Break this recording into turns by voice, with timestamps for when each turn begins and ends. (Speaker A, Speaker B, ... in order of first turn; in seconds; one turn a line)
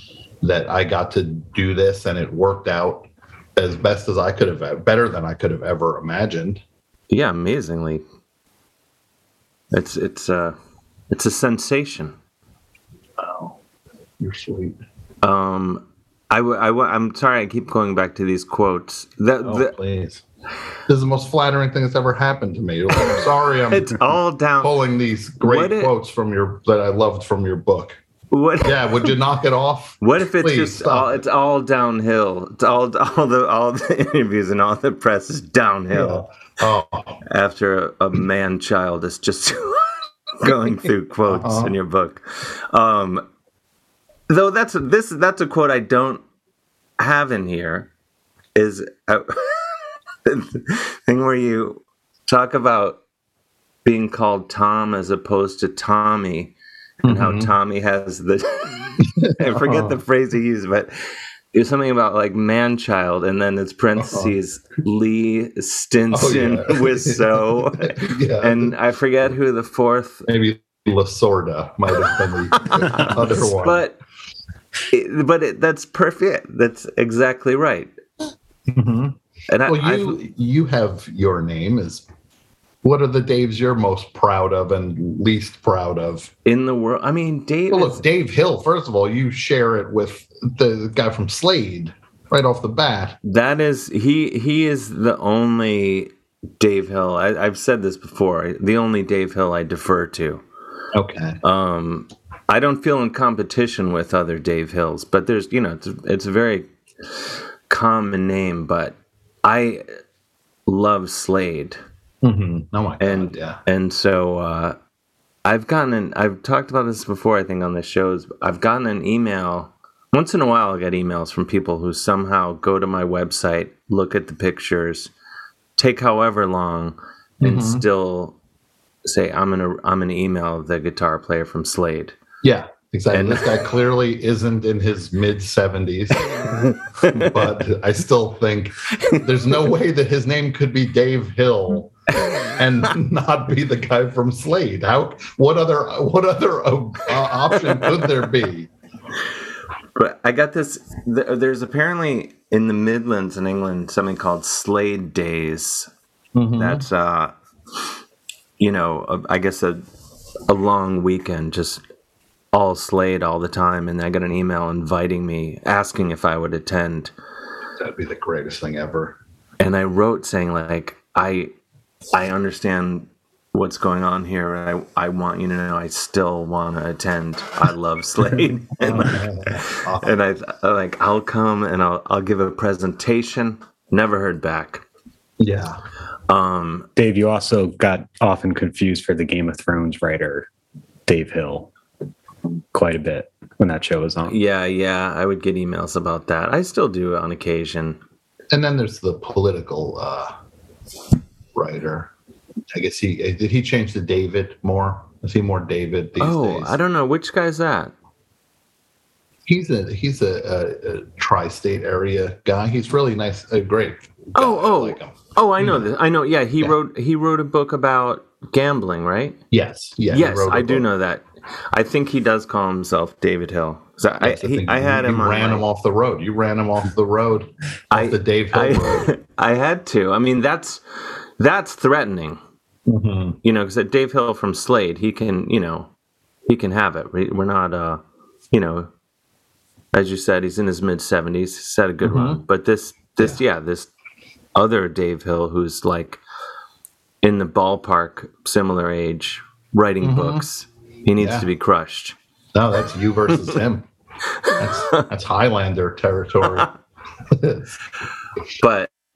Speaker A: 0.4-6.6
Speaker B: 7.1-8.0
Speaker B: 9.7-10.6
Speaker B: 11.1-12.2
Speaker A: 13.2-13.6
Speaker A: 14.2-14.8
Speaker B: 15.2-19.7
Speaker A: 19.4-20.2
Speaker A: 20.9-24.0
Speaker B: 23.7-24.8
Speaker A: 24.6-28.0
Speaker B: 25.4-25.9
Speaker B: 28.3-29.1
Speaker A: 28.6-31.2
Speaker B: 30.0-36.2
Speaker A: 35.9-37.2
Speaker B: 37.3-43.2
Speaker A: 41.2-41.8
Speaker B: 44.3-46.2
Speaker B: 47.0-47.9
Speaker B: 48.5-49.7
Speaker B: 50.2-53.0
Speaker B: 53.9-56.5
Speaker A: 57.0-57.5
Speaker B: 57.1-60.9
Speaker A: 59.0-60.0
Speaker B: 61.5-70.3
Speaker A: 64.0-64.3
Speaker A: 66.1-68.7
Speaker A: 70.3-73.8
Speaker B: 72.0-74.0
Speaker B: 74.9-77.9
Speaker A: 78.7-82.1
Speaker B: 79.5-80.2
Speaker A: 82.8-86.3
Speaker B: 86.5-88.0
Speaker A: 87.7-93.2
Speaker B: 93.2-100.4
Speaker A: 100.9-101.4
Speaker B: 101.4-109.9
Speaker B: 110.7-111.8
Speaker A: 112.2-113.6
Speaker B: 113.0-114.8
Speaker B: 115.5-125.1
Speaker B: 125.8-128.4
Speaker A: 127.4-127.8
Speaker B: 129.1-132.2
Speaker A: 132.4-136.6
Speaker B: 133.1-133.5
Speaker B: 136.7-137.3
Speaker A: 137.1-141.9
Speaker A: 142.5-148.7
Speaker B: 150.0-155.9
Speaker A: 156.3-156.8
Speaker B: 156.6-157.3
Speaker B: 158.6-159.8
Speaker B: 160.5-161.8
Speaker B: 162.5-167.1
Speaker A: 167.8-169.2
Speaker B: 169.6-171.5
Speaker B: 172.1-184.8
Speaker A: 178.8-180.1
Speaker A: 185.4-185.8
Speaker B: 186.3-186.9
Speaker C: 187.0-190.5
Speaker C: 191.1-191.7
Speaker C: 192.7-194.4
Speaker B: 194.2-198.0
Speaker A: 198.5-200.3
Speaker A: 201.6-202.1
Speaker A: 202.7-206.8
Speaker B: 206.2-207.9
Speaker A: 209.5-215.9
Speaker B: 214.3-219.4
Speaker A: 219.5-220.9
Speaker B: 220.1-225.7
Speaker A: 224.2-229.1
Speaker B: 227.9-230.8
Speaker B: 231.4-232.4
Speaker A: 232.9-233.4
Speaker B: 233.4-235.9
Speaker B: 236.5-238.9
Speaker B: 239.9-243.9
Speaker A: 242.0-242.4
Speaker B: 244.6-246.2
Speaker B: 247.2-252.2
Speaker A: 250.0-250.4
Speaker A: 251.2-251.5
Speaker A: 252.5-253.9
Speaker B: 254.4-255.1
Speaker A: 254.6-256.7
Speaker A: 257.3-257.8
Speaker B: 258.6-258.9